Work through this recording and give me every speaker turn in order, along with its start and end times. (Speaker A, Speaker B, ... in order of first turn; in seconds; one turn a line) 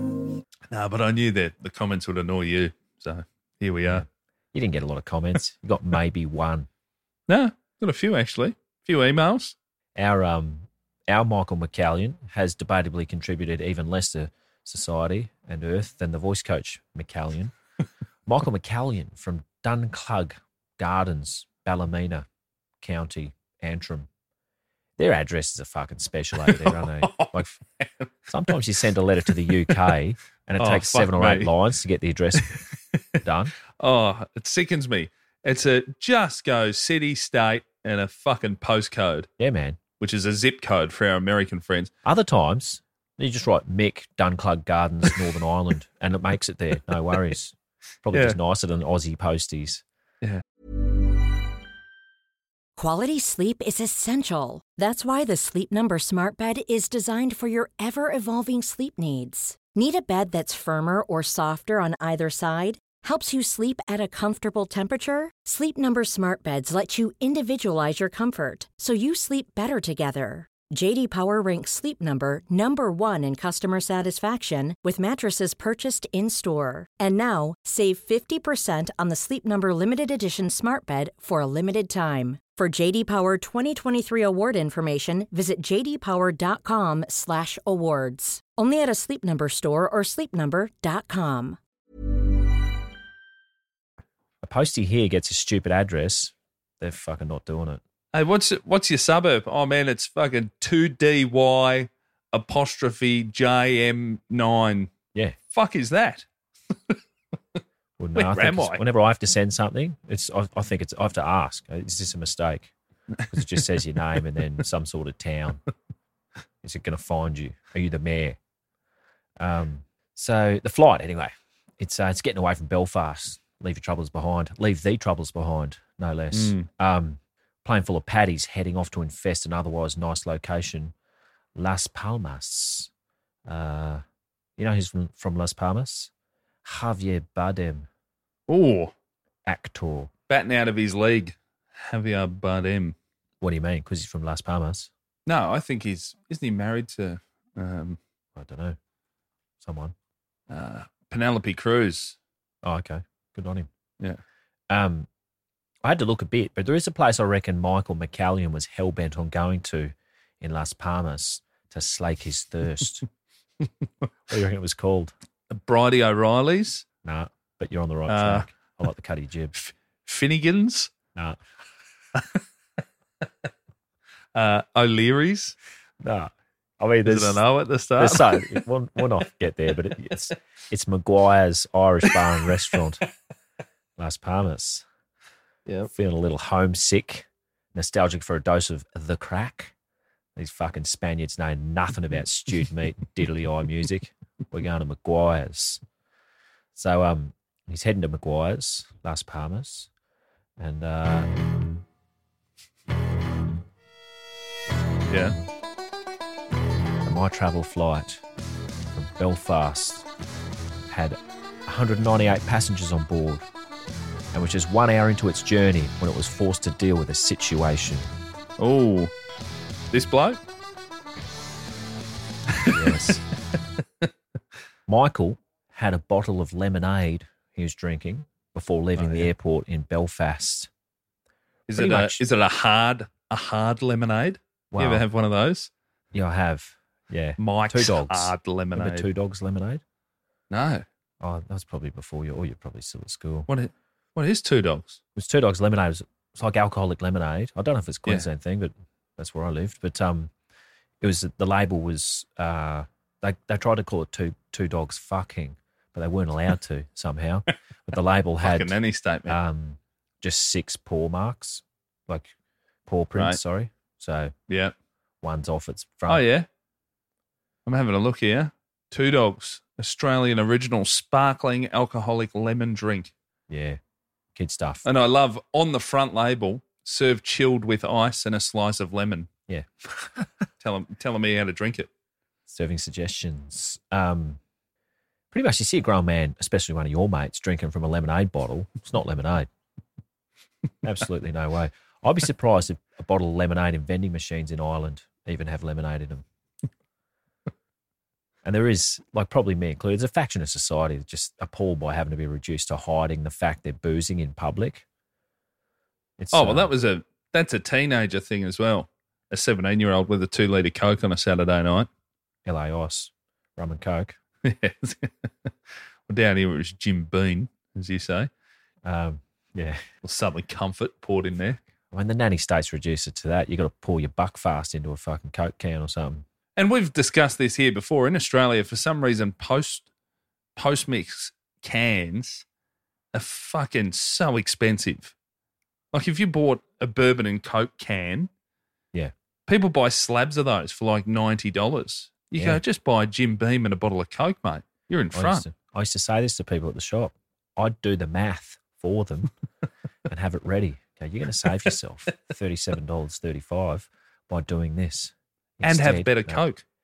Speaker A: 0.7-4.0
Speaker B: 3.9-6.7
Speaker A: 7.3-9.5
Speaker B: 9.9-17.5
Speaker B: 18.2-22.3
Speaker B: 22.8-24.1
Speaker B: 25.0-27.6
Speaker A: 26.4-28.1
Speaker B: 28.3-32.6
Speaker A: 30.6-31.5
Speaker B: 33.2-33.5
Speaker A: 33.8-39.3
Speaker B: 39.4-39.8
Speaker A: 40.0-41.9
Speaker B: 42.0-49.8
Speaker A: 48.1-48.4
Speaker C: 52.8-91.6
Speaker B: 94.4-97.8
Speaker A: 98.1-104.9
Speaker A: 105.5-106.2
Speaker B: 108.0-112.7
Speaker A: 108.1-108.8
Speaker B: 113.3-115.6
Speaker B: 116.6-118.4
Speaker B: 119.4-130.9
Speaker A: 126.3-126.7
Speaker B: 131.6-132.9
Speaker B: 133.4-134.0
Speaker B: 134.6-136.1
Speaker B: 136.6-137.9
Speaker A: 138.5-138.9
Speaker B: 139.4-140.1
Speaker A: 140.3-142.9
Speaker B: 143.4-144.9
Speaker A: 145.2-148.0
Speaker B: 148.3-148.8
Speaker B: 149.6-149.9
Speaker A: 150.5-152.2
Speaker B: 152.6-153.7
Speaker B: 154.7-155.1
Speaker B: 155.8-163.0
Speaker B: 164.3-165.1
Speaker A: 165.5-166.8
Speaker B: 167.0-169.5
Speaker A: 168.1-168.5
Speaker A: 169.5-170.9
Speaker B: 171.1-171.4
Speaker A: 174.3-175.6
Speaker B: 176.0-177.4
Speaker A: 177.0-178.6
Speaker B: 178.0-183.0
Speaker B: 184.0-184.8
Speaker B: 185.9-189.7
Speaker B: 190.3-195.8
Speaker B: 196.7-199.9
Speaker B: 200.6-201.3
Speaker A: 205.1-205.3
Speaker B: 207.0-208.2
Speaker B: 208.9-210.1
Speaker B: 210.9-213.4
Speaker B: 214.3-218.1
Speaker A: 218.6-219.1
Speaker A: 219.9-220.4
Speaker A: 222.6-223.1
Speaker B: 222.7-223.2
Speaker B: 224.9-230.7
Speaker A: 229.0-229.3
Speaker A: 231.7-235.7
Speaker B: 231.7-232.2
Speaker B: 234.7-235.1
Speaker B: 236.1-239.8
Speaker A: 237.4-239.1
Speaker A: 240.5-240.8
Speaker B: 241.2-243.5
Speaker A: 243.5-245.0
Speaker B: 245.2-250.3
Speaker B: 251.0-262.3
Speaker A: 258.4-259.4
Speaker B: 262.9-264.3
Speaker A: 264.5-264.7
Speaker B: 265.2-266.2
Speaker A: 266.1-266.5
Speaker A: 267.6-273.1
Speaker B: 273.5-273.8
Speaker B: 274.3-274.8
Speaker A: 274.8-279.3
Speaker B: 279.5-280.0
Speaker A: 280.6-281.9
Speaker B: 282.5-284.4
Speaker B: 285.3-289.5
Speaker B: 290.8-296.2
Speaker B: 298.4-304.8
Speaker B: 306.2-306.7
Speaker A: 306.3-311.9
Speaker B: 312.4-314.2
Speaker A: 314.4-315.5
Speaker A: 316.1-318.3
Speaker B: 318.8-319.8
Speaker A: 320.0-321.6
Speaker B: 321.9-326.2
Speaker A: 326.6-329.9
Speaker A: 330.6-332.4
Speaker A: 333.1-335.1
Speaker A: 335.9-338.3
Speaker A: 339.5-345.4
Speaker B: 342.4-342.6
Speaker B: 345.1-349.3
Speaker B: 350.1-356.4
Speaker A: 355.6-356.6